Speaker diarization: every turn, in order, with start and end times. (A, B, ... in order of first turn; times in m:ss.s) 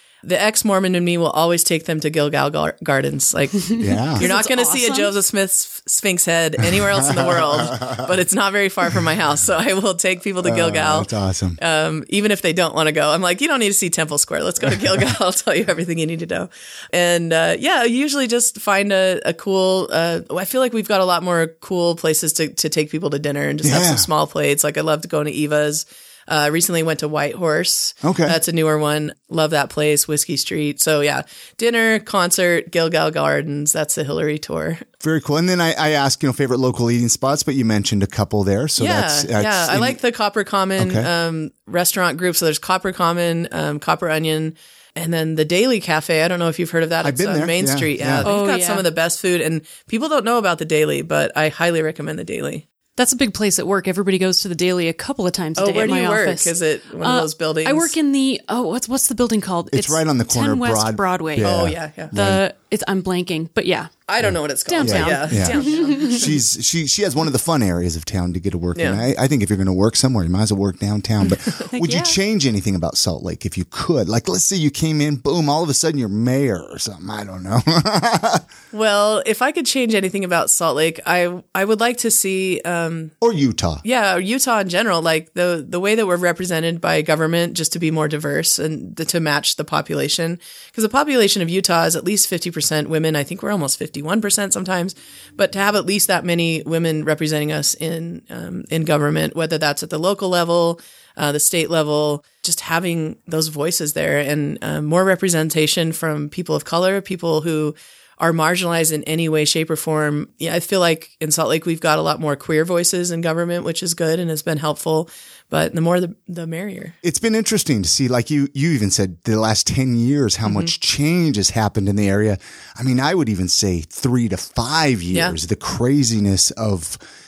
0:00.2-0:34.8 A
0:03.8-0:04.2 B
0:04.1-0:05.1 C
0:06.7-0:08.1 B
0:10.4-0:11.6 B
0:23.6-0:24.1 B
0:28.0-0:28.4 B
0:35.0-0:40.0 B
0:38.8-0:52.6 A
0:40.8-0:41.1 B
0:47.0-0:48.3 B
0:48.2-0:48.8 C
0:53.0-1:04.0 C
0:55.6-0:57.9 A
0:59.7-1:02.4 B
1:01.4-1:02.1 A
1:04.1-1:06.4 A
1:04.2-1:18.5 B
1:04.7-1:06.3 C
1:08.7-1:09.0 A
1:11.7-1:12.2 C
1:18.7-1:23.1 A
1:23.2-1:23.8 B
1:23.8-1:57.0 A
1:57.0-2:07.0 B
2:00.4-2:00.7 A